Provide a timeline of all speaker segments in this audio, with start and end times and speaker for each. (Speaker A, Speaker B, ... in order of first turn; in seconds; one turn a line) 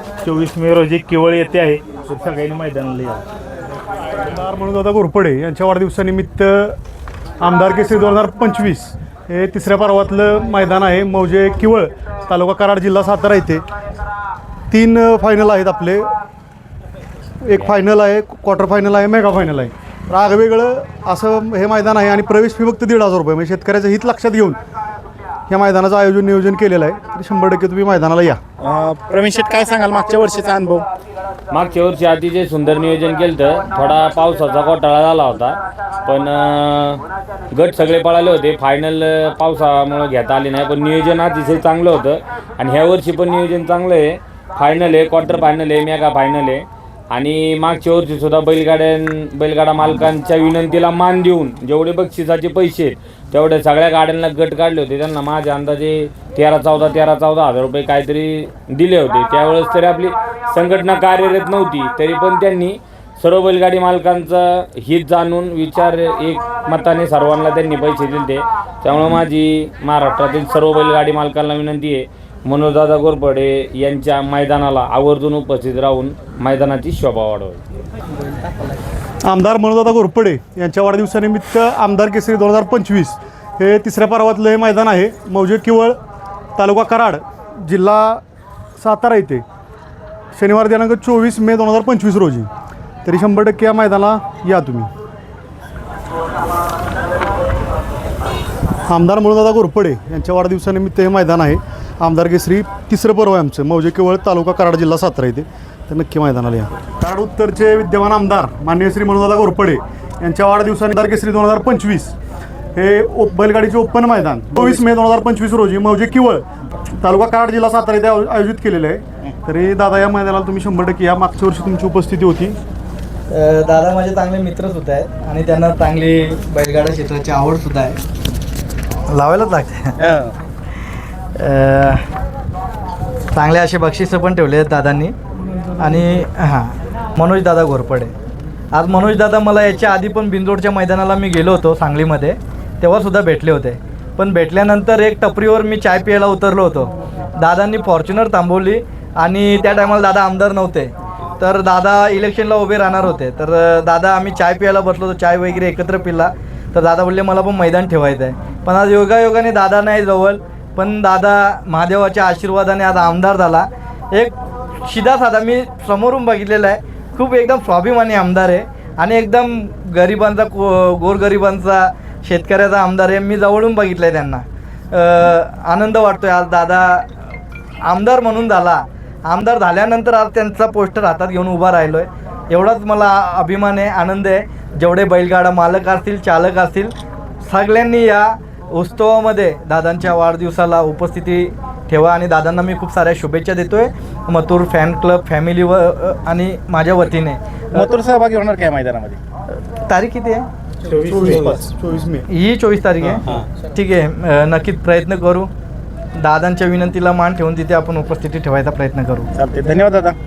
Speaker A: 0.2-3.2
Speaker B: 4.2-6.8
Speaker B: 7.4-13.6
Speaker B: 14.7-16.1
Speaker B: 17.4-24.6
Speaker B: 25.5-28.4
Speaker C: 28.6-30.9
Speaker D: 31.5-37.0
Speaker D: 37.5-77.6
Speaker B: 79.2-86.0
Speaker B: 86.6-88.2
Speaker B: 88.8-89.4
Speaker B: 90.4-92.5
Speaker B: 93.0-94.9
Speaker B: 98.9-112.2
Speaker B: 112.8-116.4
Speaker B: 117.0-122.6
Speaker E: 123.3-128.0
Speaker E: 129.1-129.9
Speaker C: 130.0-130.3
Speaker E: 131.4-132.1
Speaker E: 133.3-135.2
Speaker E: 135.8-138.1
Speaker E: 138.7-177.1
Speaker E: 177.9-186.9
Speaker E: 187.4-197.9
Speaker C: 197.7-199.2
Speaker E: 199.7-200.5
Speaker A: 200.8-201.5
Speaker B: 201.0-202.3
Speaker E: 202.3-205.5
Speaker E: 206.2-209.3
Speaker C: 209.4-210.2